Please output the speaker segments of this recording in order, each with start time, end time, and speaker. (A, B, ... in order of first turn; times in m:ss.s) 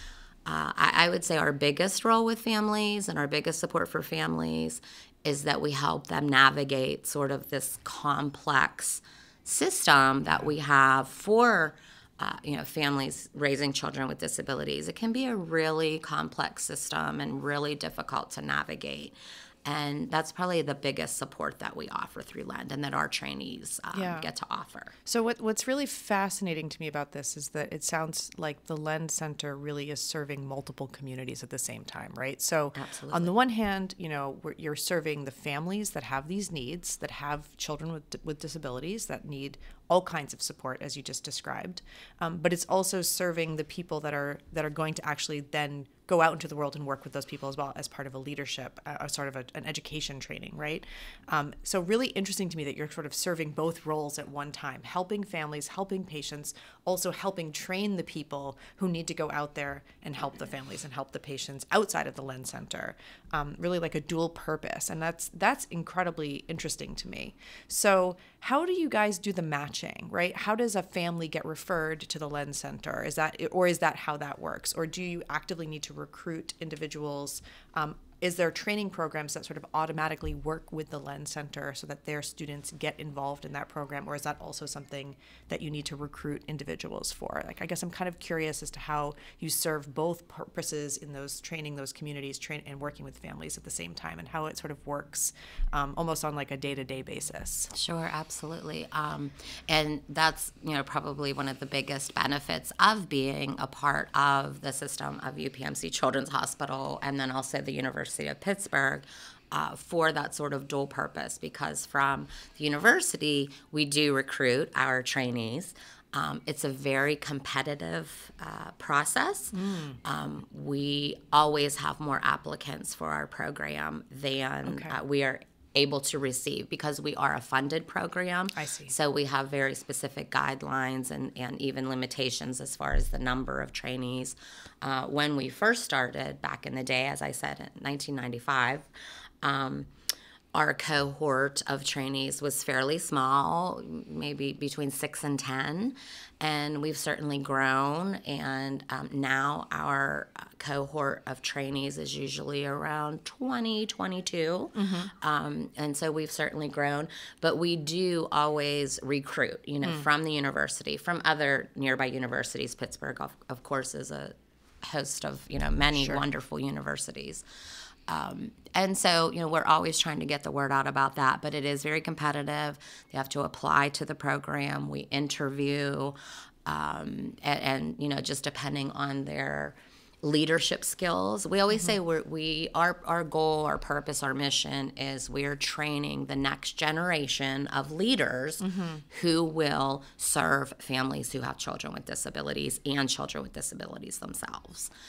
0:00.5-0:24.9 A
0:23.9-0:24.3 B
0:25.0-1:37.7 B
0:32.8-0:33.3 A
1:37.7-2:18.9 A
1:59.5-2:00.0 B
2:04.7-2:05.0 B
2:08.6-2:08.9 B
2:19.4-2:19.9 A
2:20.5-2:47.4 A
2:34.8-2:35.1 B
2:45.9-2:46.2 B
2:48.1-3:14.9 A
3:08.6-3:09.0 B